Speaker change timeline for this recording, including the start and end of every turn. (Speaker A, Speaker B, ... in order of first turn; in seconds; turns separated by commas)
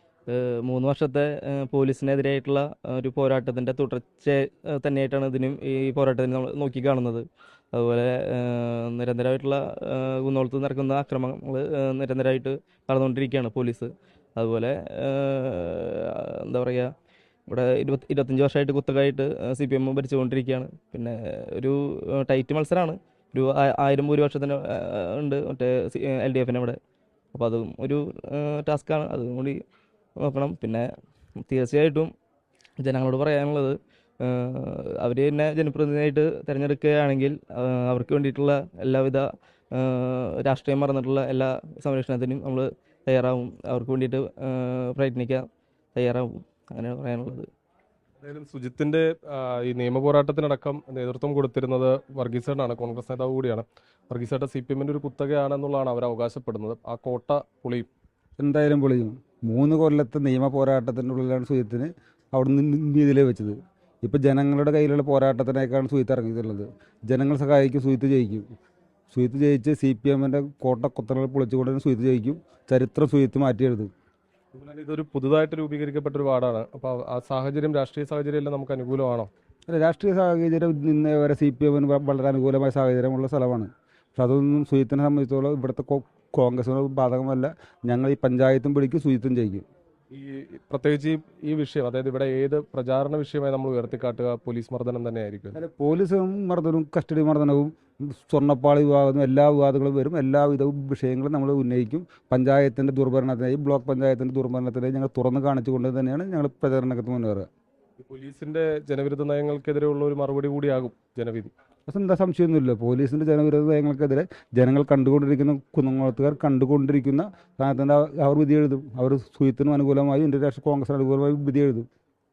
Speaker A: 0.3-16.9, Speaker A: 17.5-26.8, Speaker A: 27.3-29.6, Speaker A: 30.2-30.9, Speaker A: 31.4-32.1, Speaker A: 32.8-45.5, Speaker A: 46.0-47.5, Speaker B: 48.2-57.9, Speaker C: 58.4-68.5, Speaker C: 69.1-73.9, Speaker B: 74.5-79.3, Speaker C: 79.7-89.7, Speaker B: 90.1-95.6, Speaker C: 95.5-107.5, Speaker B: 108.0-111.5, Speaker C: 111.9-121.9